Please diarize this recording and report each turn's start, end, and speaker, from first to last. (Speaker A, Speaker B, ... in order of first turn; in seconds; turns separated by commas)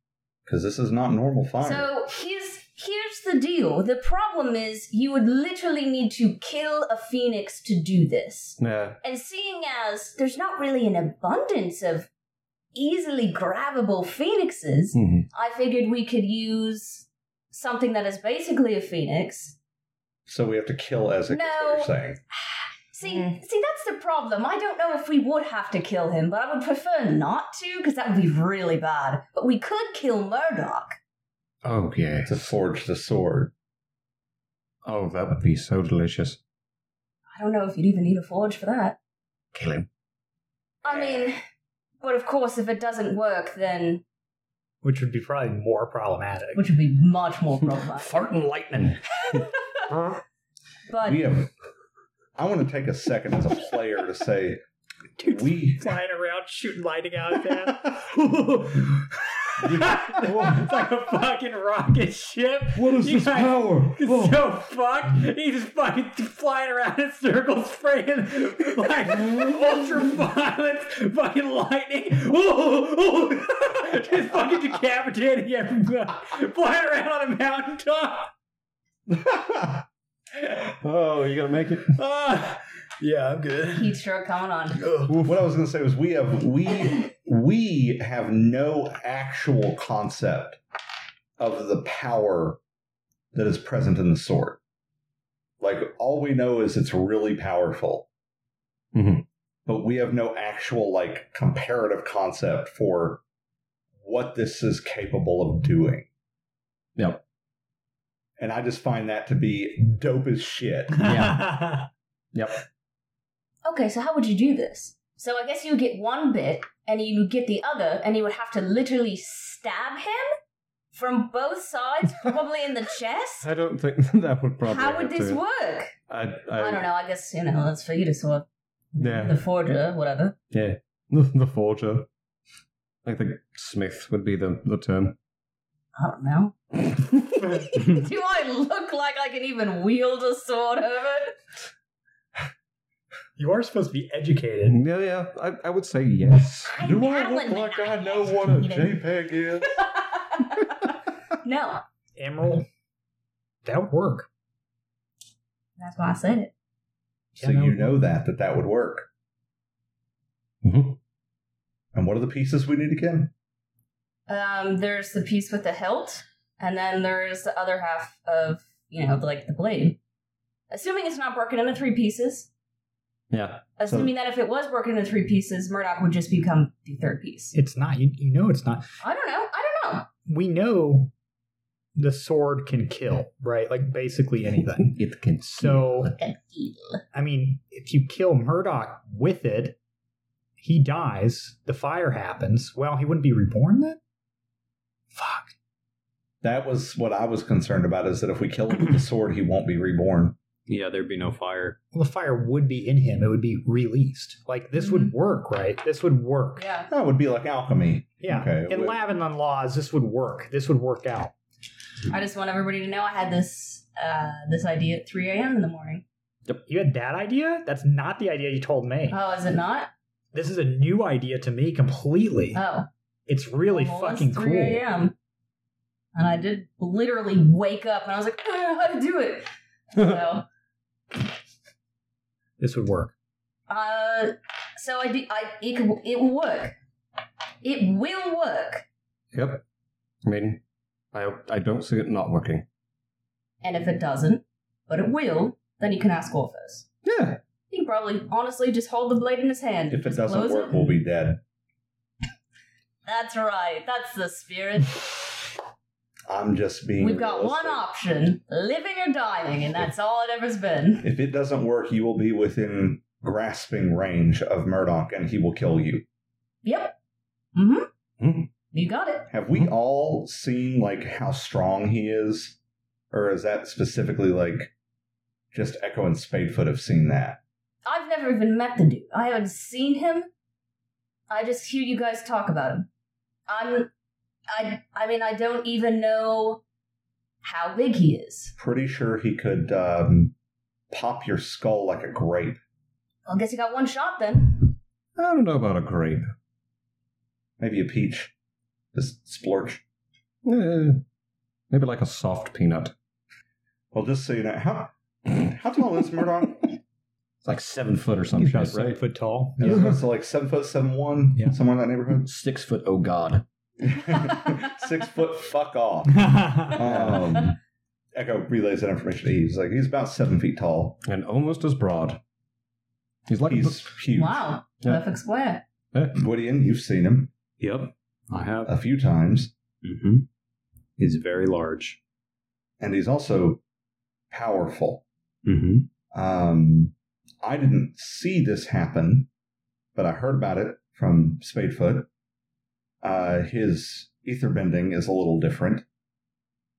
Speaker A: 0.5-1.9, Speaker B: 1.6-12.1, Speaker C: 8.6-9.0, Speaker B: 12.7-19.6, Speaker C: 14.9-15.3, Speaker A: 20.3-22.2, Speaker B: 21.3-31.0, Speaker C: 23.0-23.4, Speaker C: 31.6-32.5, Speaker A: 32.2-33.5, Speaker C: 34.8-36.4, Speaker B: 37.4-39.0, Speaker C: 39.5-39.9, Speaker B: 40.8-41.4, Speaker B: 42.0-44.0, Speaker D: 44.8-46.6, Speaker B: 46.5-48.1, Speaker C: 47.9-50.2, Speaker B: 50.9-51.2, Speaker A: 51.0-51.5, Speaker A: 52.4-54.6, Speaker D: 55.2-78.3, Speaker A: 55.2-55.9, Speaker C: 59.6-60.7, Speaker C: 62.7-64.4, Speaker A: 79.2-79.6, Speaker C: 80.6-82.0, Speaker D: 82.0-84.0, Speaker B: 83.7-84.8, Speaker D: 84.8-85.2, Speaker C: 85.0-85.3, Speaker A: 85.2-90.6, Speaker A: 91.4-92.6, Speaker A: 93.3-94.6, Speaker A: 95.6-98.1, Speaker C: 98.9-99.2, Speaker A: 99.7-103.2, Speaker A: 104.0-106.1, Speaker C: 107.0-107.2, Speaker A: 108.4-111.0, Speaker C: 111.0-111.5, Speaker D: 111.0-111.9, Speaker C: 112.3-112.6, Speaker B: 113.6-120.3, Speaker B: 120.9-123.5, Speaker C: 123.4-125.4, Speaker B: 124.6-125.9, Speaker C: 126.1-126.8, Speaker B: 126.5-130.3, Speaker C: 129.0-129.4, Speaker C: 130.5-132.1, Speaker C: 133.0-135.2, Speaker B: 135.9-141.3, Speaker D: 143.4-144.8, Speaker C: 144.7-147.0, Speaker B: 146.7-149.1, Speaker A: 146.8-149.7, Speaker C: 148.2-148.7, Speaker B: 149.6-151.8, Speaker D: 152.2-152.7, Speaker D: 153.6-154.3, Speaker B: 155.8-156.5, Speaker D: 157.3-158.0, Speaker A: 157.4-159.1, Speaker C: 160.6-161.0, Speaker A: 161.9-163.3, Speaker B: 164.3-170.0, Speaker B: 170.7-172.5, Speaker C: 173.3-173.7, Speaker B: 173.8-177.5, Speaker D: 177.5-178.9, Speaker B: 179.0-180.1, Speaker D: 180.2-181.1, Speaker D: 181.9-186.1, Speaker C: 184.8-186.2, Speaker B: 186.2-187.0, Speaker D: 187.1-189.8, Speaker D: 190.6-194.0, Speaker D: 195.1-195.5, Speaker A: 196.4-200.3, Speaker E: 200.7-201.8, Speaker D: 201.9-206.7, Speaker B: 204.8-205.1, Speaker B: 206.6-206.9, Speaker A: 206.9-209.0, Speaker D: 208.2-211.3, Speaker B: 212.1-216.0, Speaker D: 216.7-219.2, Speaker B: 219.1-219.9, Speaker D: 220.3-222.6, Speaker B: 222.5-222.9, Speaker D: 223.3-224.8, Speaker B: 223.7-225.1, Speaker B: 226.1-230.4, Speaker D: 232.6-233.1, Speaker B: 233.7-236.7, Speaker B: 237.6-238.8, Speaker C: 239.3-239.6, Speaker C: 240.2-240.6, Speaker C: 241.1-242.6, Speaker B: 243.6-246.8, Speaker C: 247.0-247.4, Speaker B: 247.7-250.9, Speaker A: 249.9-251.4, Speaker B: 253.0-255.5, Speaker A: 256.3-257.8, Speaker B: 257.0-261.1, Speaker A: 261.0-266.0, Speaker B: 266.6-266.9, Speaker B: 267.5-267.9, Speaker C: 268.2-268.5, Speaker B: 268.7-269.3, Speaker A: 269.3-272.6, Speaker A: 273.1-274.7, Speaker A: 275.5-277.4, Speaker B: 277.8-280.3, Speaker B: 281.3-282.9, Speaker B: 283.5-283.9, Speaker B: 284.5-286.6, Speaker B: 287.4-288.5, Speaker A: 288.6-290.3, Speaker A: 290.9-292.6, Speaker B: 293.3-294.8, Speaker C: 295.2-296.3, Speaker A: 297.6-298.3, Speaker A: 298.9-299.8, Speaker C: 300.4-301.0, Speaker C: 301.7-302.9, Speaker A: 303.9-306.8, Speaker C: 307.4-309.0, Speaker D: 308.4-310.0, Speaker A: 309.6-312.3, Speaker C: 312.2-313.4, Speaker A: 313.8-317.6, Speaker D: 316.1-316.8, Speaker C: 316.8-317.2, Speaker A: 318.1-321.0, Speaker C: 321.0-322.2, Speaker C: 323.3-323.9, Speaker A: 323.4-324.5, Speaker B: 324.1-325.6, Speaker C: 325.9-326.2, Speaker A: 326.1-327.3, Speaker E: 327.6-328.7, Speaker A: 328.6-329.5, Speaker E: 329.8-330.2, Speaker E: 331.0-332.0, Speaker A: 332.8-333.6, Speaker A: 334.3-335.0, Speaker E: 335.4-335.9, Speaker A: 336.1-339.3, Speaker A: 339.9-342.1, Speaker A: 343.0-345.8